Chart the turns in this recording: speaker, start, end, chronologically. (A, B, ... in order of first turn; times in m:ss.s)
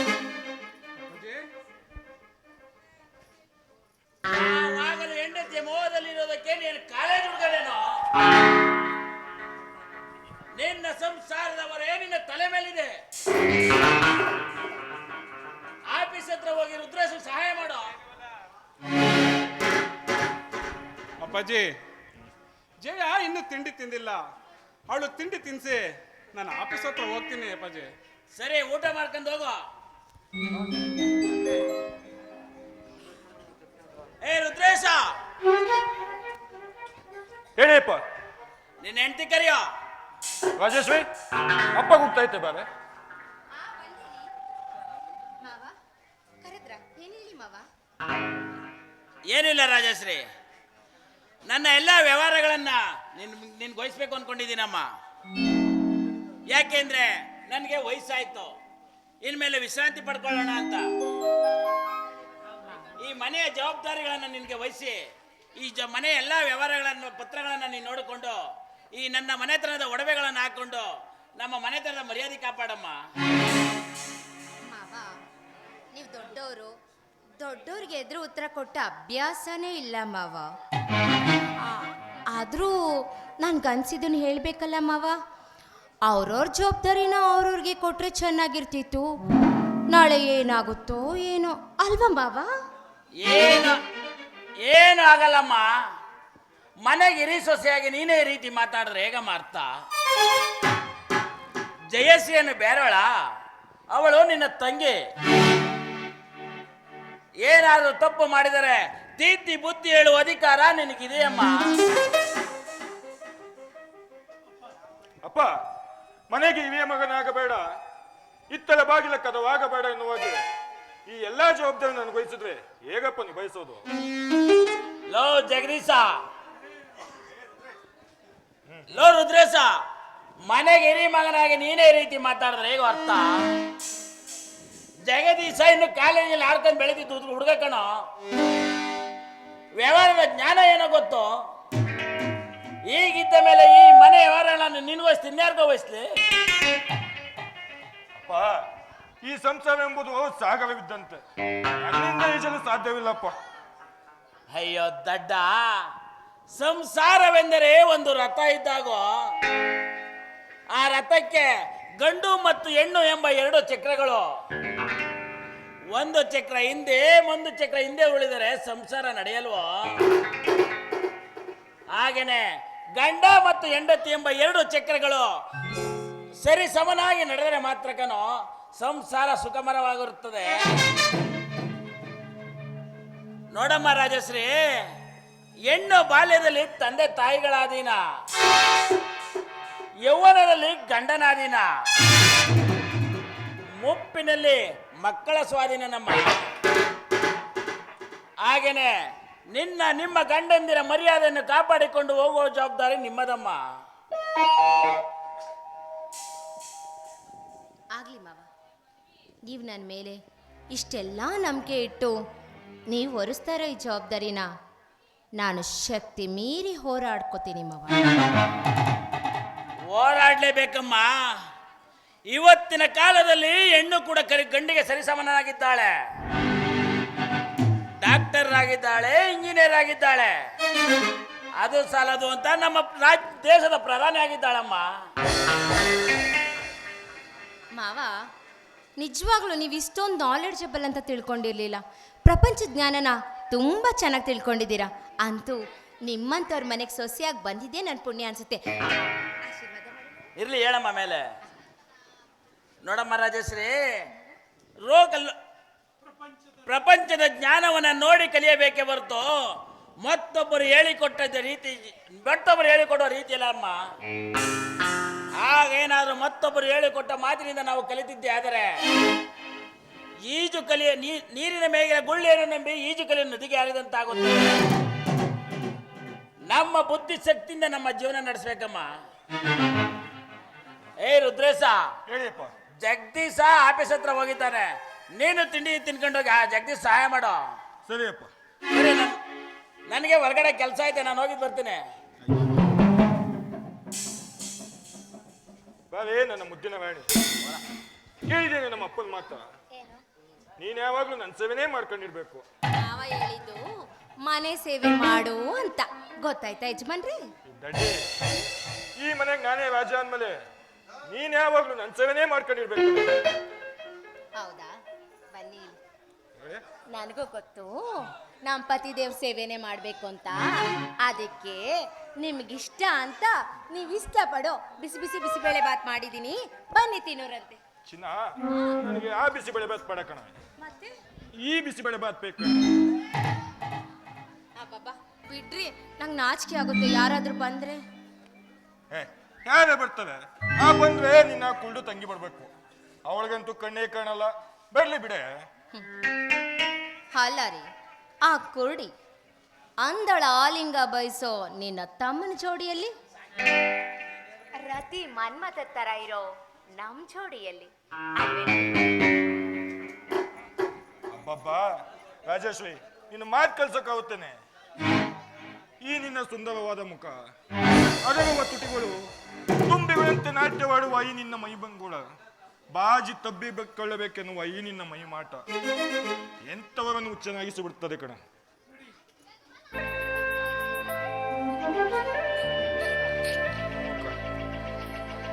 0:01.0-0:01.5 A
0:04.2-0:08.0 B
0:10.5-0:13.0 B
0:15.9-0:17.9 B
0:21.2-0:21.8 A
0:22.8-0:24.3 A
0:24.9-0:27.9 A
0:28.3-0:29.6 B
0:34.2-0:35.1 B
0:37.6-0:38.0 C
0:38.8-0:39.7 B
0:40.6-0:41.0 C
0:41.7-0:42.7 C
0:43.6-0:44.2 D
0:45.4-0:45.7 D
0:46.4-0:47.7 D
0:49.3-0:50.3 B
0:51.5-0:54.9 B
0:56.5-0:58.5 B
0:59.2-1:00.8 B
1:03.0-1:05.0 B
1:05.6-1:08.4 B
1:08.9-1:13.0 B
1:14.7-1:15.2 D
1:15.9-1:16.7 D
1:17.4-1:20.5 D
1:21.6-1:25.2 D
1:26.0-1:29.1 D
1:29.9-1:32.5 D
1:33.2-1:33.8 B
1:34.6-1:35.7 B
1:36.8-1:39.7 B
1:41.9-1:43.1 B
1:43.9-1:45.0 B
1:47.4-1:51.5 B
1:55.2-1:55.5 C
1:56.3-1:57.6 C
1:58.5-2:00.4 C
2:01.0-2:03.8 C
2:05.1-2:06.2 B
2:08.9-2:09.8 B
2:10.5-2:13.3 B
2:15.0-2:17.9 B
2:19.8-2:21.3 B
2:22.9-2:26.1 B
2:28.2-2:28.6 C
2:29.2-2:31.2 C
2:31.8-2:33.3 C
2:34.5-2:35.9 B
2:36.5-2:39.1 B
2:40.7-2:41.5 B
2:42.0-2:44.3 B
2:45.9-2:49.9 B
2:51.9-2:52.4 B
2:52.9-2:55.3 B
2:56.4-3:00.9 B
3:03.5-3:04.9 B
3:05.7-3:08.0 B
3:10.0-3:11.7 B
3:13.8-3:16.4 B
3:18.4-3:18.9 B
3:19.5-3:23.6 B
3:27.9-3:28.5 D
3:29.5-3:30.2 D
3:30.7-3:32.2 D
3:32.9-3:34.5 D
3:35.4-3:38.0 D
3:39.9-3:41.1 B
3:42.3-3:45.9 B
3:48.0-3:50.3 B
3:51.6-3:54.9 B
3:57.7-3:58.1 D
3:59.0-4:08.7 D
4:09.4-4:10.3 D
4:10.4-4:11.2 B
4:12.8-4:14.1 B
4:14.8-4:15.3 B
4:16.6-4:19.3 B
4:20.0-4:23.8 B
4:25.4-4:28.7 B
4:30.2-4:34.6 B
4:36.5-4:38.9 B
4:41.0-4:41.8 B
4:42.1-4:42.5 C
4:42.8-4:47.5 B
4:47.8-4:48.3 C
4:48.7-4:49.2 B
4:49.9-4:51.8 B
4:55.9-4:57.1 C
4:58.3-4:59.5 C
4:59.8-5:00.0 D
5:00.6-5:02.4 C
5:02.8-5:03.6 D
5:04.2-5:07.2 D
5:07.4-5:08.1 C
5:09.0-5:10.4 C
5:11.1-5:13.2 C
5:14.4-5:14.7 D
5:15.3-5:15.8 D
5:16.9-5:27.6 D
5:27.8-5:30.3 C
5:30.6-5:30.9 D
5:31.4-5:32.6 C
5:34.6-5:37.8 D
5:38.9-5:42.5 C
5:43.0-5:45.4 C
5:47.1-5:47.7 D
5:48.2-5:48.9 D
5:49.8-5:52.9 D
5:54.6-5:58.8 D
6:01.1-6:04.4 C
6:05.8-6:07.2 C
6:08.0-6:12.1 C
6:12.7-6:15.4 C
6:16.5-6:18.2 C
6:23.7-6:24.2 C